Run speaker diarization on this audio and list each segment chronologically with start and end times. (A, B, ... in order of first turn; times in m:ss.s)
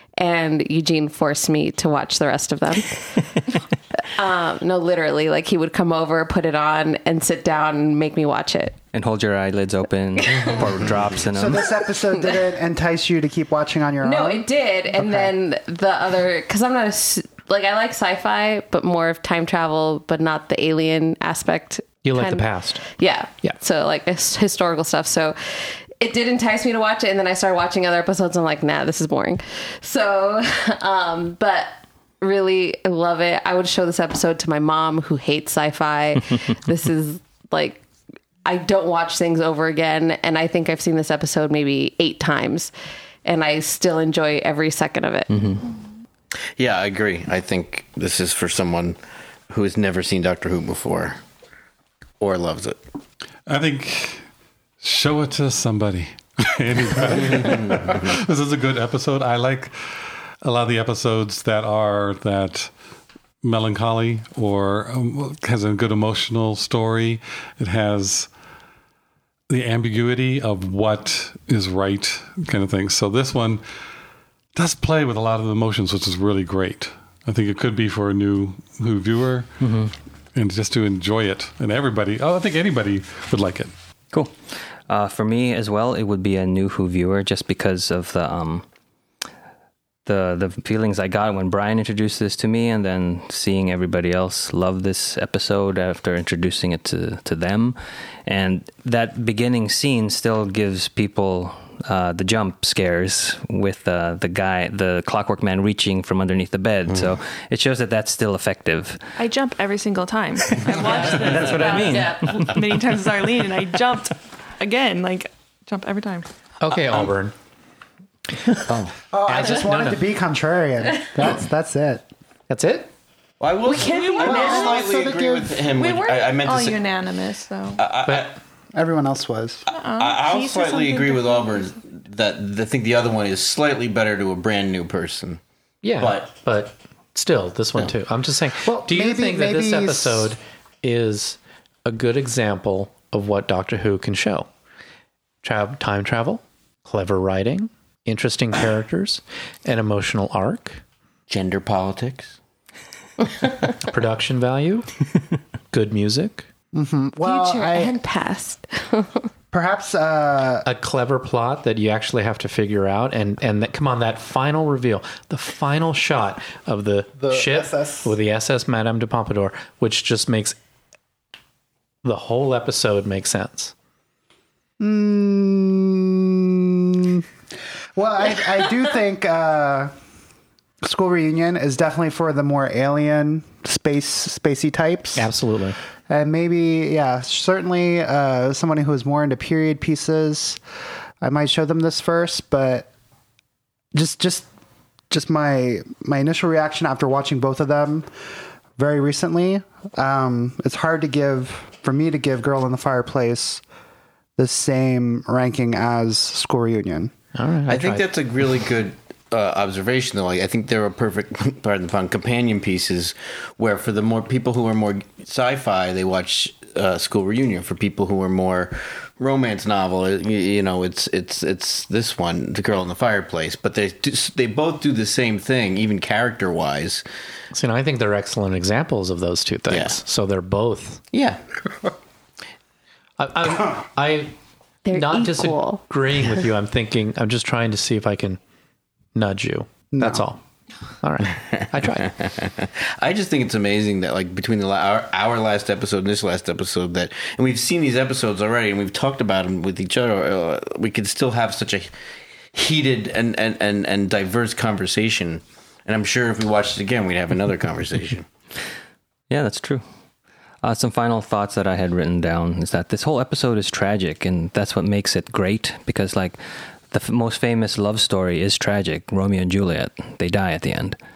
0:00.2-0:08.8 A
0:08.9-0:11.7 B
0:10.2-0:10.7 A
0:10.5-0:10.9 C
0:11.3-0:15.3 D
0:12.1-0:12.4 A
0:14.0-0:25.4 A
0:22.0-0:22.8 E
0:26.0-0:37.8 A
0:38.4-0:42.7 A
0:43.2-0:45.3 A
0:45.3-0:45.7 B
0:46.6-0:49.0 C
0:49.5-0:51.2 C
0:52.2-0:52.8 C
0:53.5-0:54.2 F
0:54.8-0:59.8 F
0:57.4-0:57.9 C
1:00.4-1:02.7 F
1:03.4-1:08.3 F
1:09.5-1:13.6 F
1:14.5-1:19.5 F
1:19.6-1:19.9 B
1:20.3-1:23.7 F
1:24.1-1:28.6 B
1:30.0-1:49.0 B
1:46.9-1:47.1 C
1:49.2-1:56.3 G
1:50.5-1:52.6 B
1:50.7-1:52.5 A
1:56.6-1:57.3 E
1:59.1-2:02.0 D
1:59.2-2:00.1 E
2:02.5-2:02.9 E
2:03.4-2:06.8 C
2:03.6-2:04.9 A
2:03.7-2:04.8 G
2:04.2-2:05.6 D
2:05.7-2:07.9 G
2:07.8-2:08.4 C
2:08.0-2:08.3 E
2:08.7-2:09.6 D
2:09.7-2:11.7 G
2:10.0-2:15.4 C
2:15.8-2:24.5 E
2:16.0-2:16.3 C
2:18.6-2:20.3 D
2:25.4-2:30.8 E
2:31.3-2:32.4 C
2:33.8-2:35.0 E
2:35.7-2:36.5 E
2:36.7-2:37.9 D
2:37.2-2:39.2 A
2:39.5-2:40.7 D
2:40.6-2:50.6 E
2:47.2-2:48.1 D
2:52.0-2:53.7 E
2:54.8-2:57.2 D
2:58.0-2:59.9 D
3:00.8-3:05.3 D
3:05.2-3:05.8 E
3:06.1-3:10.6 D
3:11.2-3:12.9 D
3:13.9-3:14.5 D
3:15.1-3:18.1 D
3:18.8-3:23.6 D
3:24.4-3:27.1 D
3:27.3-3:28.1 E
3:27.7-3:47.0 C
3:47.5-3:51.0 E
3:49.7-3:50.0 C
3:51.1-3:51.4 C
3:53.2-3:54.3 E
3:54.8-3:55.8 A
3:54.9-3:58.4 E
3:59.1-4:00.4 E
3:59.9-4:00.2 D
4:01.0-4:02.1 E
4:01.4-4:11.9 C
4:12.5-4:18.3 C
4:19.3-4:19.8 B
4:20.6-4:31.0 B